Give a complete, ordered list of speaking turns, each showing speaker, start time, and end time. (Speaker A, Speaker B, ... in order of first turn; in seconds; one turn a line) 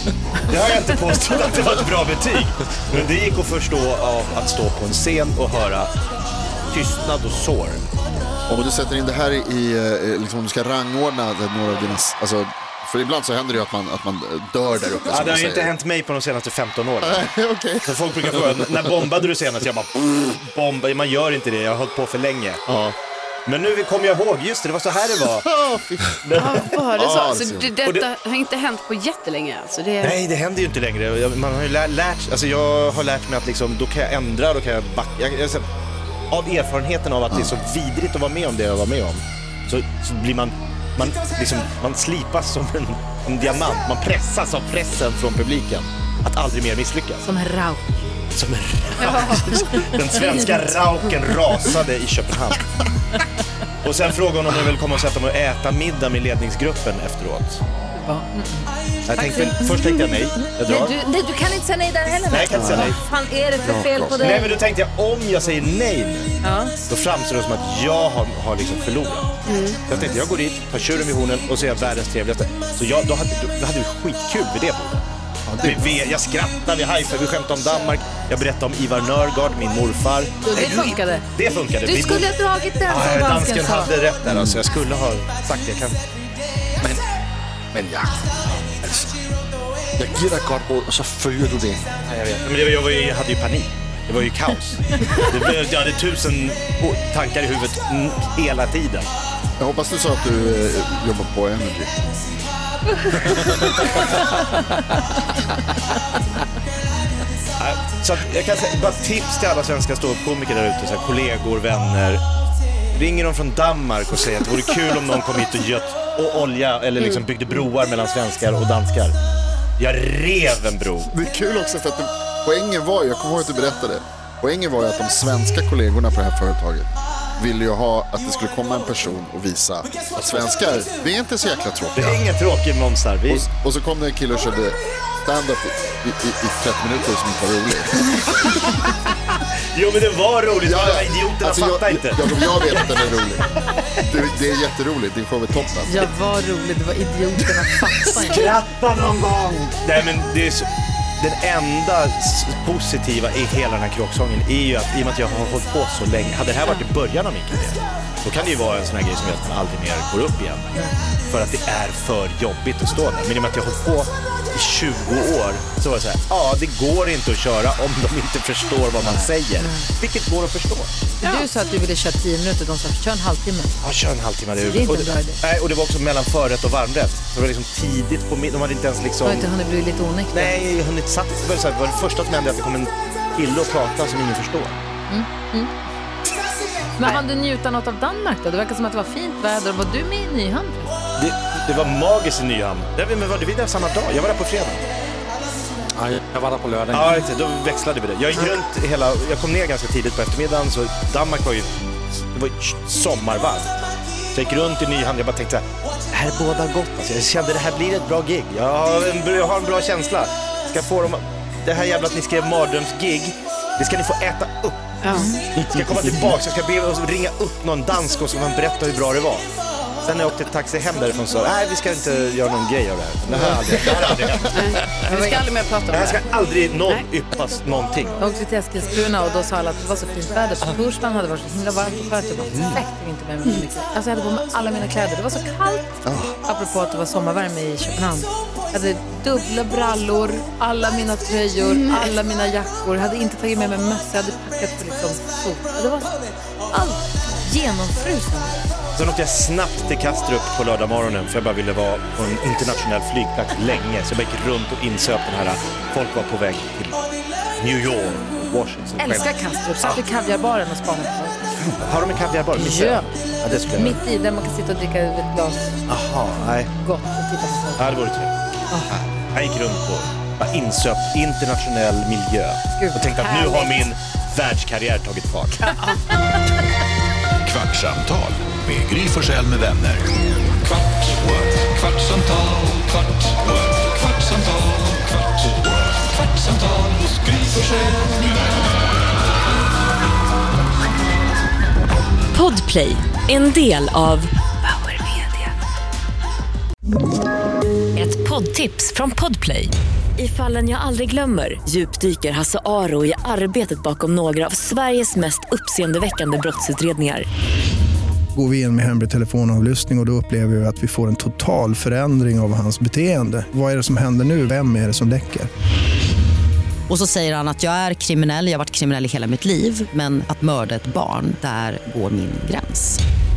Speaker A: 0.5-5.9
Speaker A: 6.7-7.9
Speaker B: 8.5-15.7
Speaker A: 15.1-17.3
Speaker B: 17.0-17.9
Speaker A: 17.8-22.7
Speaker B: 22.7-22.9
Speaker A: 23.5-25.5
Speaker B: 25.4-27.7
Speaker A: 26.2-26.6
Speaker C: 26.4-30.2
Speaker A: 30.0-35.7
Speaker A: 36.3-47.3
Speaker D: 47.2-48.0
Speaker A: 48.4-52.7
Speaker D: 49.0-49.9
Speaker A: 53.8-57.6
Speaker D: 57.9-64.5
Speaker A: 59.1-61.0
Speaker A: 62.3-63.0
Speaker B: 62.5-63.0
Speaker B: 63.6-64.4
Speaker A: 64.2-75.0
Speaker D: 66.4-66.7
Speaker C: 69.5-69.8
Speaker B: 75.5-75.9
Speaker A: 75.6-82.3
Speaker D: 80.4-81.2
Speaker D: 81.8-83.9
Speaker A: 82.9-86.0
Speaker B: 84.3-84.6
Speaker E: 87.7-89.1
Speaker E: 90.0-92.4
Speaker A: 92.4-99.1
Speaker B: 99.6-102.0
Speaker B: 103.3-103.8
Speaker A: 107.6-112.2
Speaker A: 112.9-119.2
Speaker A: 119.8-121.1
Speaker B: 121.1-132.2
Speaker A: 130.2-130.9
Speaker A: 131.9-133.5
Speaker B: 133.3-138.2
Speaker A: 139.7-143.1
Speaker B: 140.6-143.4
Speaker B: 144.1-146.1
Speaker D: 145.9-148.5
Speaker A: 148.1-150.7
Speaker A: 151.2-160.7
Speaker A: 161.3-170.9
Speaker D: 169.6-169.9
Speaker C: 171.2-171.5
Speaker D: 171.2-173.7
Speaker A: 173.8-179.5
Speaker D: 174.6-175.4
Speaker D: 179.2-180.6
Speaker A: 180.3-184.8
Speaker D: 185.1-185.7
Speaker D: 187.0-191.0
Speaker A: 191.2-194.8
Speaker E: 196.0-197.2
Speaker A: 196.9-203.7
Speaker A: 204.3-219.4
Speaker C: 215.0-215.3
Speaker A: 220.0-224.5
Speaker B: 223.3-224.4
Speaker C: 224.5-226.2
Speaker D: 225.0-225.4
Speaker A: 225.9-228.2
Speaker D: 228.2-246.2
Speaker B: 236.1-236.3
Speaker C: 241.7-242.1
Speaker D: 246.7-248.6
Speaker A: 249.0-257.1
Speaker A: 257.6-259.3
Speaker D: 259.0-261.7
Speaker A: 261.6-264.0
Speaker D: 262.5-263.1
Speaker D: 263.7-265.9
Speaker A: 265.9-266.7
Speaker D: 266.4-267.9
Speaker A: 267.8-268.3
Speaker A: 268.9-275.7
Speaker D: 272.8-273.7
Speaker F: 277.4-280.1
Speaker F: 280.7-288.3
Speaker G: 292.3-295.5
Speaker G: 298.0-307.3
Speaker H: 308.4-315.5
Speaker I: 316.9-323.0